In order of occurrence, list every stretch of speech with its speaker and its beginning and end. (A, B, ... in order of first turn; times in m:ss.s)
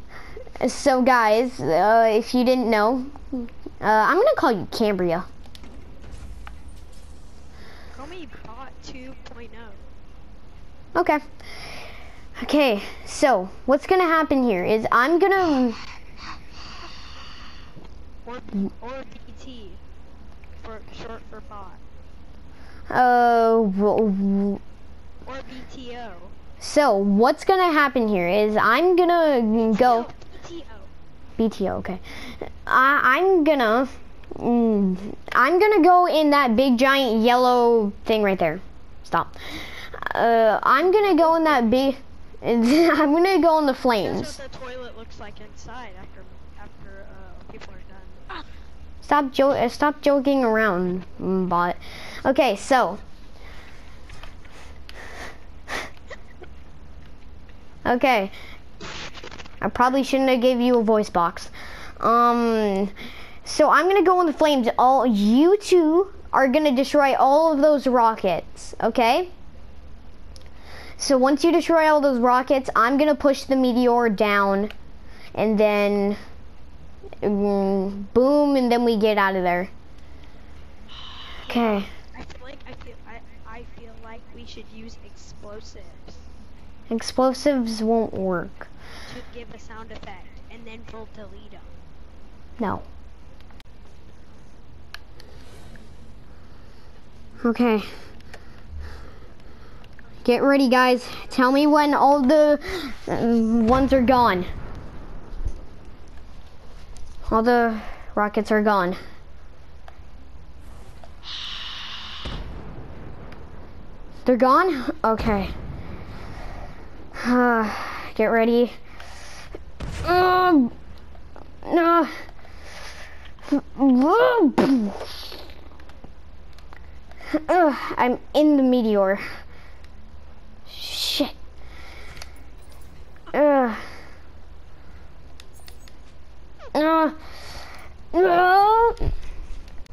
0:00.6-0:05.3 A
0:07.9-0:09.8 B
0:10.9-0:11.2 A
0:12.4-0:15.8 A
0:18.2-0:19.8 B
0:20.6-0:21.8 B
0:22.9-0:24.6 A
0:25.2-0:26.3 B
0:26.6-0:30.1 A
0:29.7-0:30.9 B
0:31.4-0:44.4 A
0:40.8-0:41.8 B
0:44.0-0:48.4 B
0:49.0-0:53.0 A
0:57.8-0:58.3 A
0:59.6-1:09.3 A
1:11.0-1:14.7 A
1:15.3-1:16.2 A
1:17.2-1:19.7 A
1:21.4-1:21.9 A
1:21.5-1:26.2 B
1:26.9-1:28.7 A
1:29.1-1:31.7 B
1:32.6-1:32.9 A
1:37.4-1:37.9 A
1:40.2-1:44.5 A
1:47.3-1:49.0 A
1:54.2-1:55.5 A
1:57.2-1:58.7 A
2:00.0-2:00.7 A
2:01.6-2:02.1 A
2:03.5-2:05.3 A
2:07.3-2:09.2 A
2:10.7-2:11.3 A
2:13.3-2:13.8 A
2:16.7-2:17.2 A
2:18.1-2:19.0 A